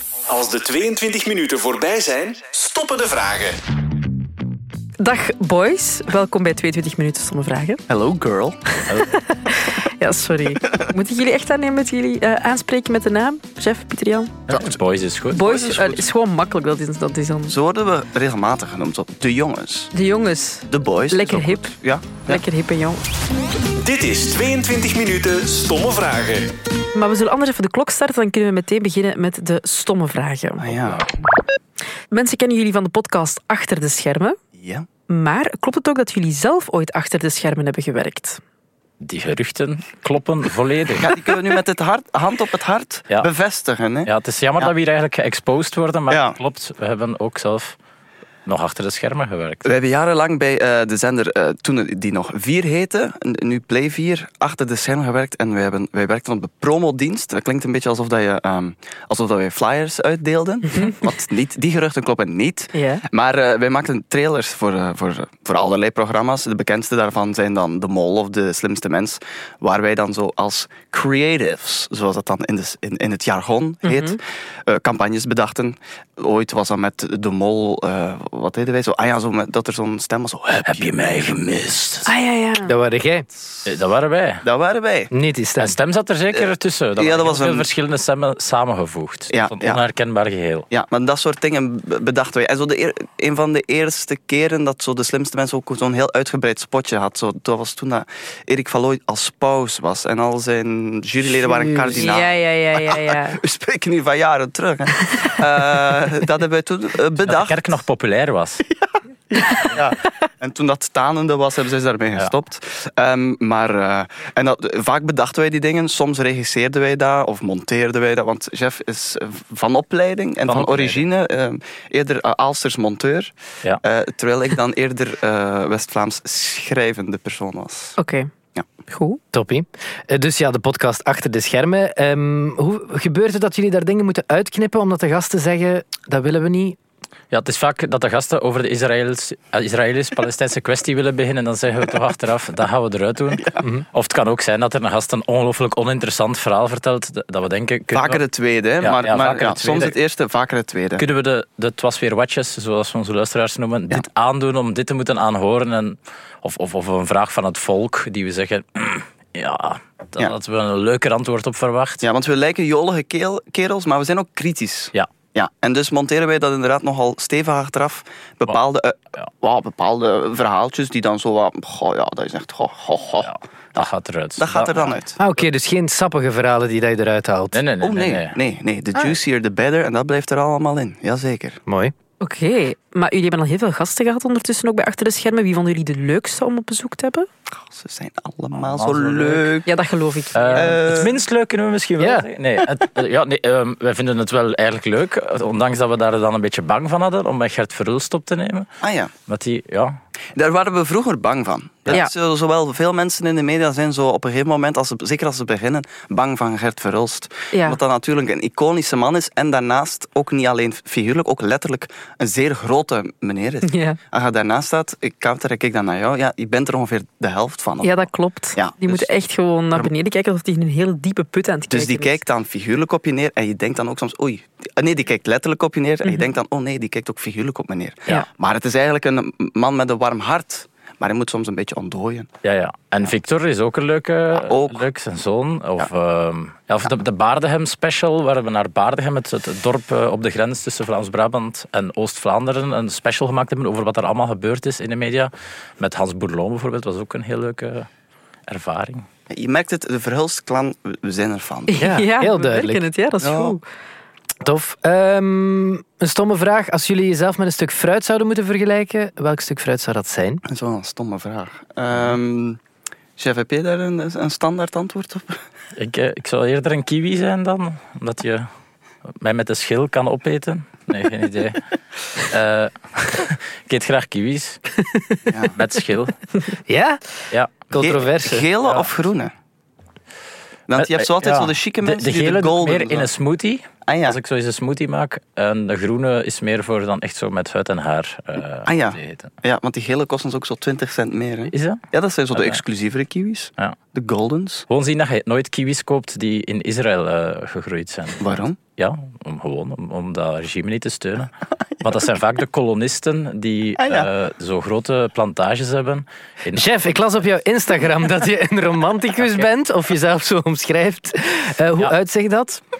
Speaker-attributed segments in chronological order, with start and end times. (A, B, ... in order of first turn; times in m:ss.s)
0:00.3-0:03.6 A
0:05.0-0:07.8 B
0:07.9-0:08.6 C
0:08.9-0:14.4 B
0:14.5-0:15.8 D
0:14.5-0:14.8 C
0:15.3-0:17.6 B
0:15.4-0:16.0 C
0:17.5-0:19.9 C
0:19.9-0:21.7 B
0:20.7-0:22.4 C
0:22.2-0:23.0 B
0:23.8-0:26.5 A
0:26.9-0:30.6 B
0:30.6-0:31.0 C
0:30.7-0:31.0 D
0:32.1-0:34.4 B
0:34.6-0:34.9 C
0:35.1-0:38.4 B
0:39.0-0:41.2 D
0:41.0-0:44.7 C
0:44.0-0:47.8 D
0:46.1-0:46.4 C
0:48.4-0:49.7 D
0:49.6-1:21.6 C
1:02.7-1:03.0 B
1:13.8-1:14.2 B
1:20.6-1:22.1 D
1:22.1-1:22.7 B
1:22.6-1:23.3 E
1:23.6-1:24.4 D
1:24.4-1:25.1 C
1:25.1-1:25.8 E
1:25.6-1:30.7 D
1:26.3-1:27.7 C
1:29.3-1:29.8 C
1:30.7-1:47.7 C
1:41.5-1:43.4 B
1:47.2-1:48.6 D
1:48.7-2:08.0 C
1:49.4-1:49.7 B
2:00.5-2:01.0 D
2:08.0-2:08.3 B
2:08.9-2:09.2 B
2:09.3-2:16.8 E
2:17.3-2:28.2 D
2:23.3-2:23.6 C
2:27.9-2:31.0 C
2:28.8-2:29.9 D
2:31.0-2:42.0 D
2:42.0-2:55.2 C
2:53.2-2:55.0 D
2:55.2-2:57.6 E
2:57.5-2:58.4 D
2:57.8-3:01.6 C
3:01.7-3:01.9 E
3:02.2-3:07.3 B
3:07.5-3:09.7 C
3:08.6-3:09.6 D
3:09.6-3:10.8 B
3:10.3-3:18.7 D
3:10.5-3:11.1 C
3:12.0-3:12.2 E
3:18.8-3:19.1 C
3:19.3-3:20.0 D
3:20.3-3:38.0 C
3:27.5-3:27.8 B
3:33.6-3:34.0 B
3:37.8-3:42.2 B
3:38.5-3:39.1 C
3:41.7-3:52.3 C
3:52.4-4:07.9 D
3:54.3-3:54.8 C
4:08.5-4:09.0 D
4:09.3-4:11.8 C
4:11.7-4:13.6 B
4:11.8-4:12.8 E
4:13.2-4:13.6 C
4:14.4-4:20.4 E
4:20.4-4:22.6 C
4:23.2-4:25.4 C
4:25.8-4:28.5 D
4:29.2-4:31.6 D
4:32.2-4:34.6 D
4:35.3-4:35.6 C
4:35.5-4:36.1 D
4:36.7-4:37.0 E
4:37.3-4:37.7 D
4:37.7-4:38.4 E
4:37.8-4:39.3 C
4:40.7-4:43.1 C
4:40.8-4:49.3 D
4:43.8-4:44.2 C
4:48.6-4:54.7 C
4:51.5-4:51.8 D
4:54.7-5:06.7 D
4:58.2-4:58.6 C
5:03.8-5:04.1 C
5:06.5-5:12.6 E